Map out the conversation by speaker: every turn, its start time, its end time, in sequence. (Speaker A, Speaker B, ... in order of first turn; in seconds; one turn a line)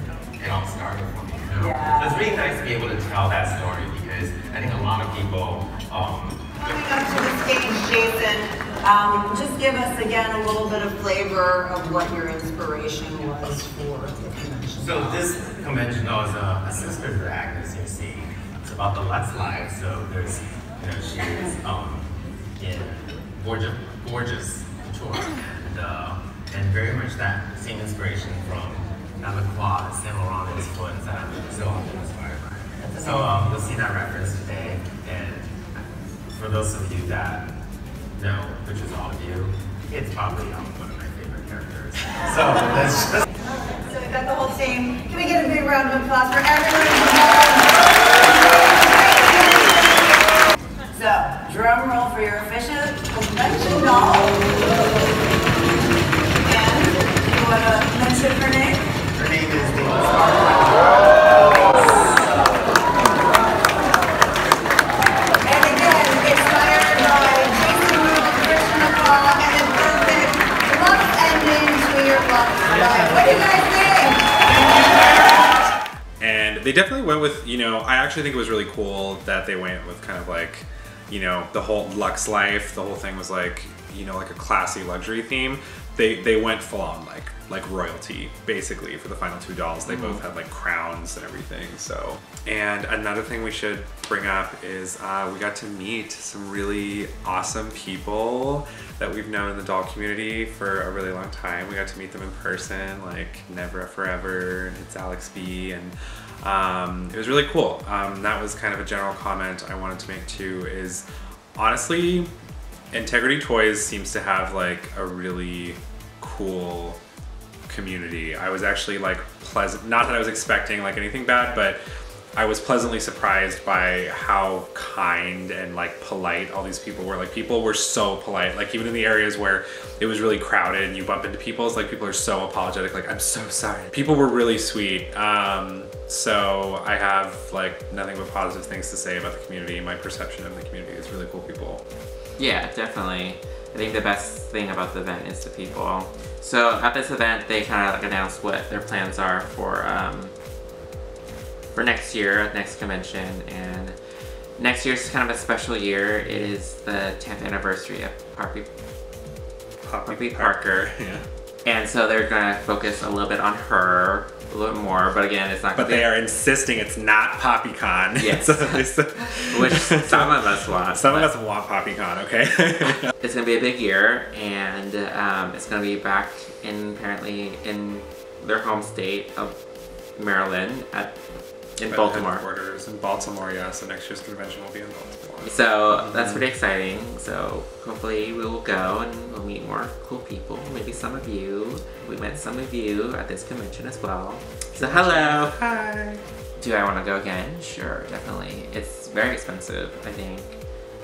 Speaker A: 0.4-6.4
Speaker B: 1.6-2.2
Speaker B: 6.6-15.2
Speaker A: 14.8-35.6
Speaker A: 36.3-37.5
Speaker A: 38.2-43.2
Speaker B: 43.8-50.2
Speaker B: 50.9-54.7
Speaker B: 56.4-58.9
Speaker A: 59.1-61.6
Speaker B: 61.7-62.1
Speaker B: 65.4-75.4
Speaker C: 76.2-112.3
Speaker D: 89.9-90.2
Speaker C: 112.9-117.0
Speaker C: 117.7-121.8
Speaker C: 122.3-141.8
Speaker D: 142.4-150.3
Speaker D: 151.7-154.0
Speaker D: 154.6-158.7
Speaker C: 159.8-161.2
Speaker D: 160.1-160.9
Speaker D: 161.7-166.1
Speaker C: 165.8-173.1
Speaker D: 168.2-171.3
Speaker D: 173.2-179.6
Speaker D: 180.2-181.2
Speaker D: 181.8-182.4
Speaker C: 181.9-186.4
Speaker D: 185.4-195.6
Speaker C: 194.8-196.2
Speaker D: 196.6-200.6